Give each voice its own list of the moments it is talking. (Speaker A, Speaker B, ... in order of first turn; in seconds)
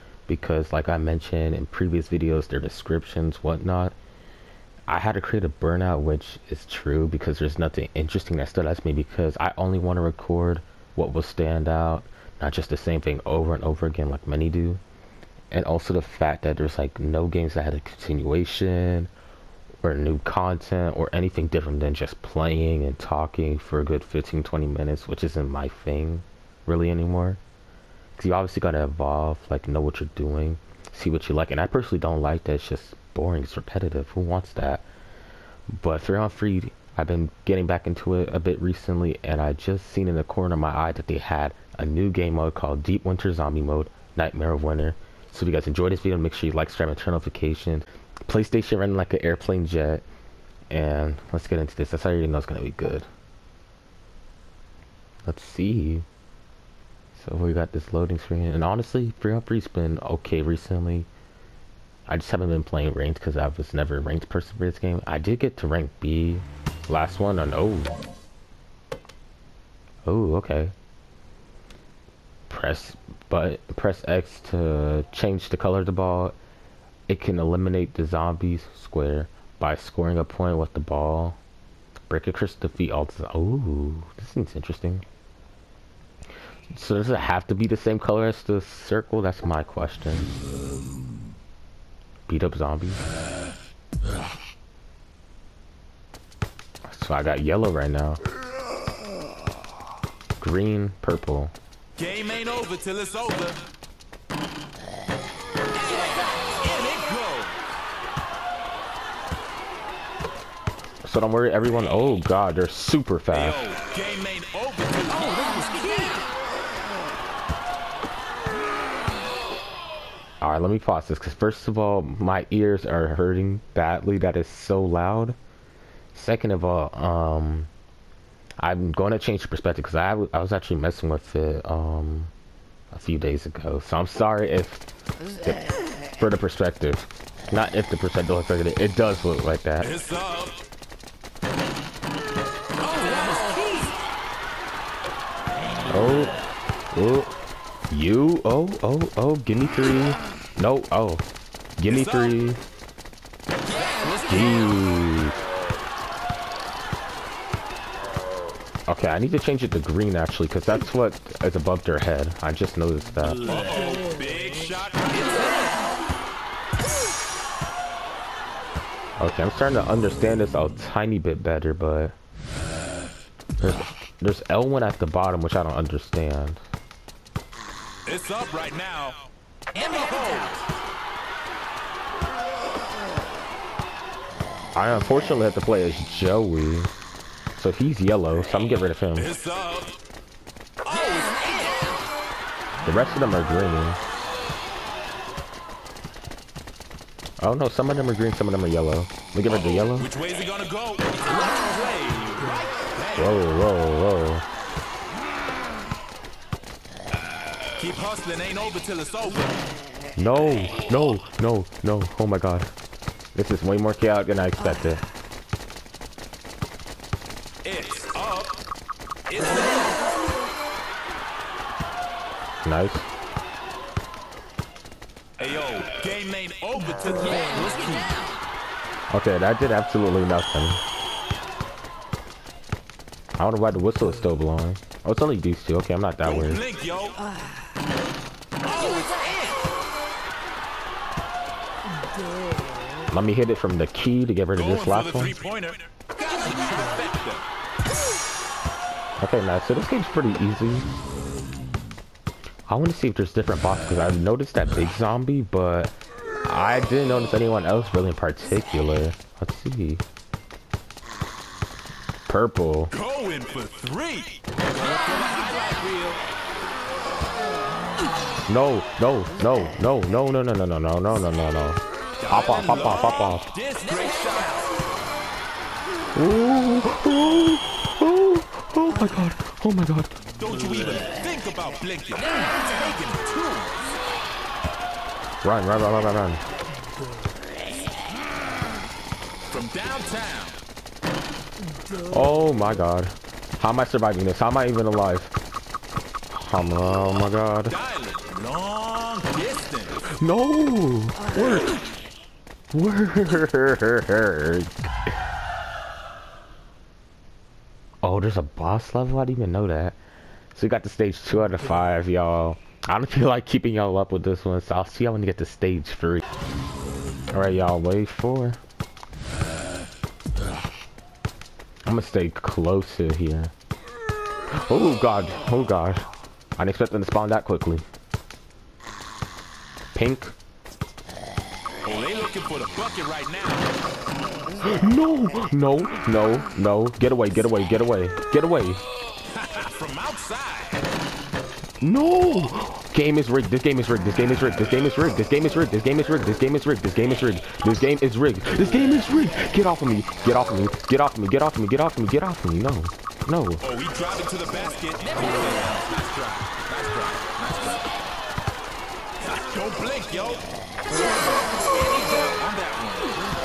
Speaker A: 0.3-4.0, 4.9-14.8, 15.5-19.1, 19.8-27.4, 28.2-34.9, 35.8-50.0, 50.7-53.1, 55.3-56.1, 57.1-61.1, 62.1-68.0, 70.1-70.7, 72.5-76.3, 77.1-81.4, 82.1-85.0, 86.7-90.3, 92.3-93.0, 96.9-98.2, 100.4-101.5, 111.0-113.6, 120.4-125.4, 126.1-127.7, 128.6-132.3, 132.9-134.8, 135.4-139.9, 145.9-146.4, 146.9-147.3, 147.9-151.3, 151.8-152.6, 154.2-155.4, 158.9-163.4, 169.2-172.2, 173.6-176.6, 184.8-186.9, 187.6-189.3, 192.8-194.0, 197.4-200.1, 203.2-204.4, 210.2-212.7, 213.3-215.0, 222.6-223.1, 229.1-230.8, 233.4-236.6, 243.1-245.3, 249.2-250.9, 252.7-260.0, 262.3-262.9, 268.5-273.5, 276.1-280.2, 285.4-286.4, 292.0-295.3, 296.3-297.8, 300.2-301.8, 302.7-304.7, 308.0-310.0, 310.5-316.3, 317.3-318.6, 321.9-323.5, 324.5-326.1, 326.6-327.9, 329.9-330.3, 334.6-338.8, 341.8-353.7
Speaker B: 102.0-103.7, 105.7-107.6, 113.3-116.3, 139.8-140.6, 142.8-144.0, 151.9-152.4, 153.7-154.8, 163.4-165.9, 178.1-180.7, 189.2-190.0, 190.8-192.0, 199.5-203.4, 207.8-209.6, 217.6-218.6, 219.3-220.1, 225.4-228.2, 236.2-237.2, 238.6-239.7, 244.6-247.5, 262.9-266.2, 272.2-274.8, 280.4-284.0, 289.5-290.6, 297.7-300.1, 331.9-333.7, 339.2-340.9, 353.6-358.0, 359.2-360.5, 361.1-363.3